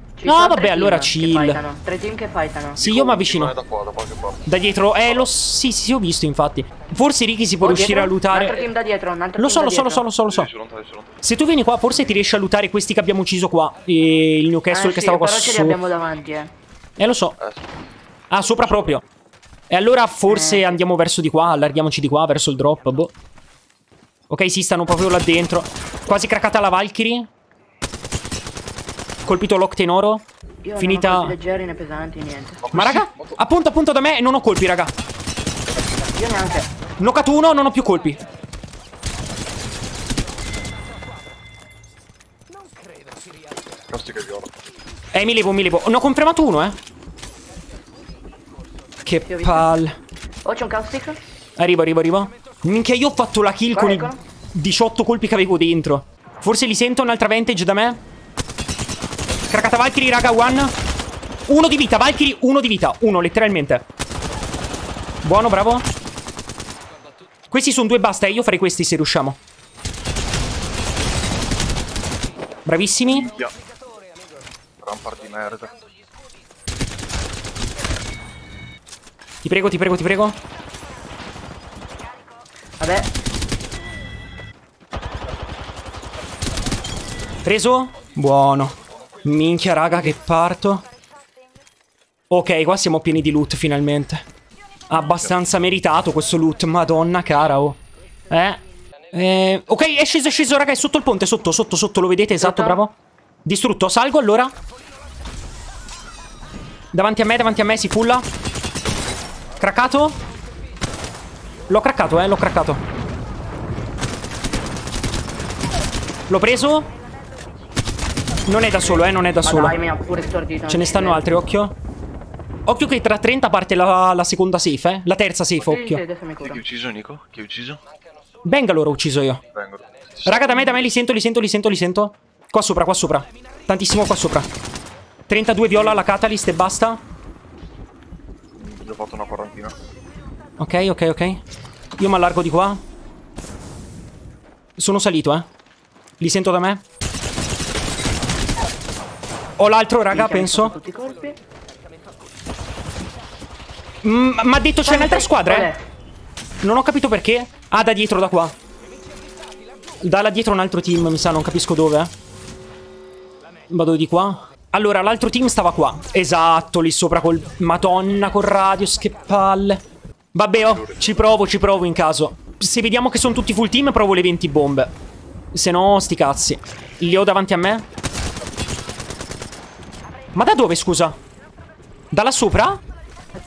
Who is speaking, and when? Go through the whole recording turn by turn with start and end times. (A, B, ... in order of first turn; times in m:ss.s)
0:00.2-0:02.8 A
0:00.2-0:01.6 B
0:02.8-0:05.3 C
0:02.8-0:03.5 B
0:04.5-0:08.7 B
0:07.6-0:10.0 A
0:09.4-0:10.5 B
0:10.2-0:11.2 C
0:11.2-0:15.8 B
0:14.7-0:16.5 A
0:17.0-0:17.4 B
0:17.4-0:17.8 C
0:18.3-0:19.0 B
0:19.7-0:23.1 B
0:20.3-0:20.8 A
0:24.3-0:27.3 B
0:29.2-0:30.2 B
0:30.6-0:32.6 A
0:30.8-0:31.3 B
0:32.6-0:33.4 C
0:32.7-0:34.9 B
0:36.1-0:36.7 A
0:37.0-0:38.2 B
0:43.9-0:44.5 C
0:45.1-0:46.8 B
0:49.0-0:50.0 B
0:49.3-0:49.7 A
0:50.4-0:51.2 A
0:51.6-0:58.0 B
0:53.7-0:54.2 A
0:59.5-1:00.7 B
1:01.5-1:03.8 B
1:05.2-1:05.8 B
1:07.5-1:09.4 B
1:12.6-1:13.3 B
1:13.1-1:13.5 C
1:14.8-1:15.8 C
1:19.4-1:20.4 B
1:22.8-1:23.1 A
1:27.4-1:30.8 B
1:32.3-1:34.2 B
1:34.9-1:38.6 B
1:39.1-1:44.5 B
1:42.4-1:42.8 A
1:46.9-1:48.2 B
1:49.6-1:50.2 B
1:51.7-1:52.8 B
1:56.3-1:56.9 B
1:58.4-1:59.8 B
1:59.4-2:01.2 A
2:00.7-2:01.8 B
2:02.7-2:06.0 B
2:05.6-2:06.6 A
2:06.4-2:07.8 C
2:08.4-2:09.4 B
2:09.5-2:10.8 C
2:10.2-2:14.5 B
2:15.3-2:17.0 B
2:18.5-2:19.8 C
2:20.6-2:21.4 B
2:22.0-2:22.8 B
2:24.8-2:25.5 B
2:26.2-2:26.8 B
2:29.6-2:30.7 B
2:30.1-2:31.4 A
2:34.0-2:35.7 B
2:34.9-2:35.8 A
2:36.6-2:38.5 B
2:40.0-2:42.1 B
2:43.7-2:54.9 B
2:50.6-2:51.2 C
2:55.5-2:57.8 B
3:00.4-3:01.2 B
3:02.1-3:02.8 B